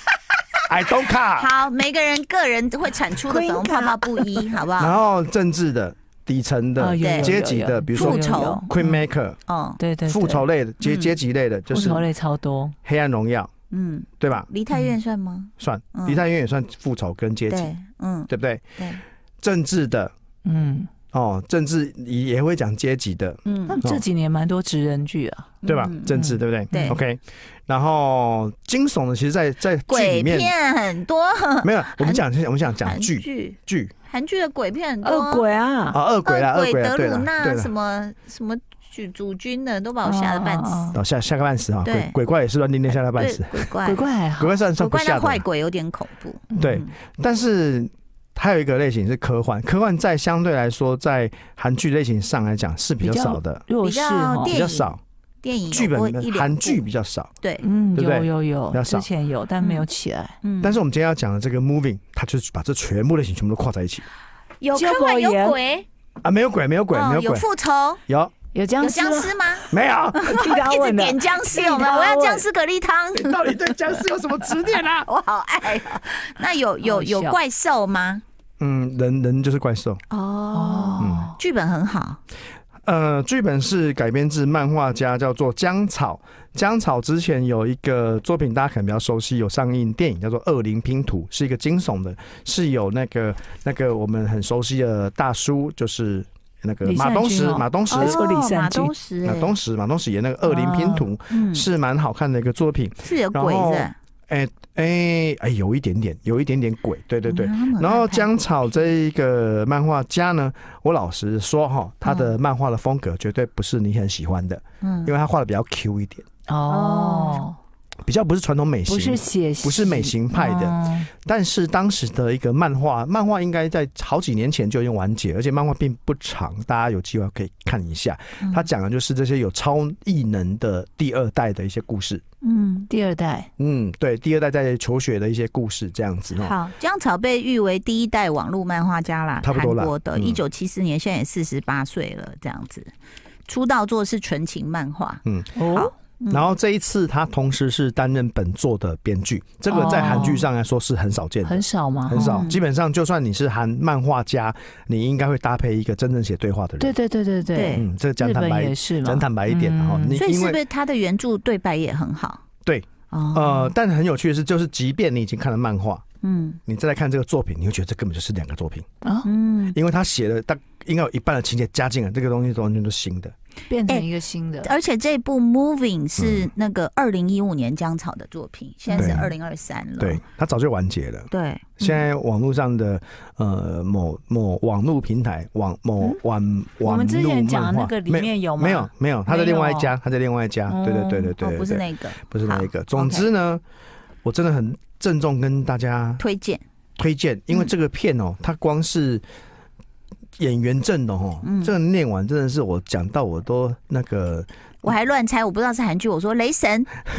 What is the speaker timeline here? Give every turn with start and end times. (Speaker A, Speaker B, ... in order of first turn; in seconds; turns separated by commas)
Speaker A: 0.7-1.5, Speaker B: 1.3-5.0, Speaker C: 3.2-4.6, Speaker A: 4.8-9.4, Speaker C: 6.8-9.0, Speaker B: 7.0-7.3, Speaker B: 7.9-8.7, Speaker B: 9.5-9.8, Speaker C: 9.8-11.1, Speaker A: 10.1-12.1, Speaker C: 11.7-12.7, Speaker A: 12.8-13.5, Speaker B: 13.7-16.2, Speaker A: 14.2-14.5, Speaker A: 15.6-17.7, Speaker B: 17.5-19.0, Speaker A: 18.3-18.8, Speaker A: 19.4-20.1, Speaker C: 20.4-20.9, Speaker A: 21.1-24.0, Speaker B: 23.4-23.8, Speaker C: 23.7-27.0, Speaker B: 25.6-26.1, Speaker A: 25.6-30.5, Speaker B: 26.7-27.0, Speaker B: 29.9-32.2, Speaker A: 31.6-33.9, Speaker B: 32.8-35.4, Speaker C: 35.0-36.0, Speaker A: 35.9-37.7, Speaker B: 36.2-41.0, Speaker C: 40.0-41.0, Speaker A: 40.9-43.7, Speaker B: 41.8-42.1, Speaker B: 43.1-44.0, Speaker C: 43.8-44.6, Speaker A: 44.4-45.4, Speaker B: 44.8-46.9, Speaker C: 46.5-46.8, Speaker A: 46.6-53.6, Speaker C: 53.0-54.6, Speaker B: 53.8-56.8, Speaker A: 54.5-55.0, Speaker A: 55.7-57.3, Speaker C: 57.6-60.4, Speaker A: 57.9-59.1, Speaker B: 59.6-59.9, Speaker B: 60.4-60.8, Speaker A: 60.6-64.0, Speaker B: 64.6-65.8, Speaker C: 64.7-65.6, Speaker A: 66.2-67.5, Speaker B: 66.9-68.0, Speaker A: 68.1-68.3, Speaker C: 68.5-69.7, Speaker B: 68.8-73.5, Speaker A: 69.7-70.3, Speaker C: 70.3-72.4, Speaker A: 73.1-75.1, Speaker B: 75.0-78.2, Speaker C: 76.8-77.4, Speaker A: 78.6-80.0, Speaker B: 80.1-82.2, Speaker C: 80.5-81.3, Speaker A: 81.0-81.3, Speaker A: 82.8-98.2, Speaker C: 96.8-98.9, Speaker B: 97.9-99.5, Speaker A: 99.2-116.2, Speaker C: 100.4-101.1, Speaker B: 101.3-101.7, Speaker B: 103.0-103.9, Speaker B: 107.3-108.9, Speaker B: 112.0-112.3, Speaker B: 114.8-115.1, Speaker C: 116.5-117.5, Speaker B: 116.7-117.4, Speaker A: 118.0-132.2, Speaker C: 118.9-121.1, Speaker B: 128.4-128.7, Speaker B: 132.4-132.9, Speaker C: 132.9-133.5, Speaker A: 133.6-136.6, Speaker B: 136.4-142.9, Speaker A: 139.4-140.4, Speaker B: 143.5-146.5, Speaker A: 145.2-145.6, Speaker C: 145.6-145.9, Speaker A: 146.3-156.9, Speaker C: 149.7-150.4, Speaker C: 151.4-152.4, Speaker B: 152.2-152.6, Speaker C: 156.8-160.2, Speaker B: 157.5-157.8, Speaker A: 157.7-160.6, Speaker B: 160.2-162.4, Speaker A: 162.6-166.0, Speaker B: 163.1-163.7, Speaker B: 166.2-166.6, Speaker A: 166.7-168.9, Speaker C: 169.0-169.3, Speaker B: 169.2-169.8, Speaker A: 169.7-173.3, Speaker C: 173.7-174.7, Speaker B: 174.6-180.2, Speaker A: 176.2-176.5, Speaker C: 178.9-179.3, Speaker A: 178.9-179.2, Speaker A: 180.0-193.6, Speaker B: 181.3-182.0, Speaker C: 186.8-189.9, Speaker C: 190.7-191.3, Speaker B: 191.4-193.3, Speaker A: 194.2-196.2, Speaker B: 196.2-196.6, Speaker A: 197.0-199.2, Speaker A: 200.4-204.5, Speaker B: 201.4-201.7, Speaker B: 204.8-207.0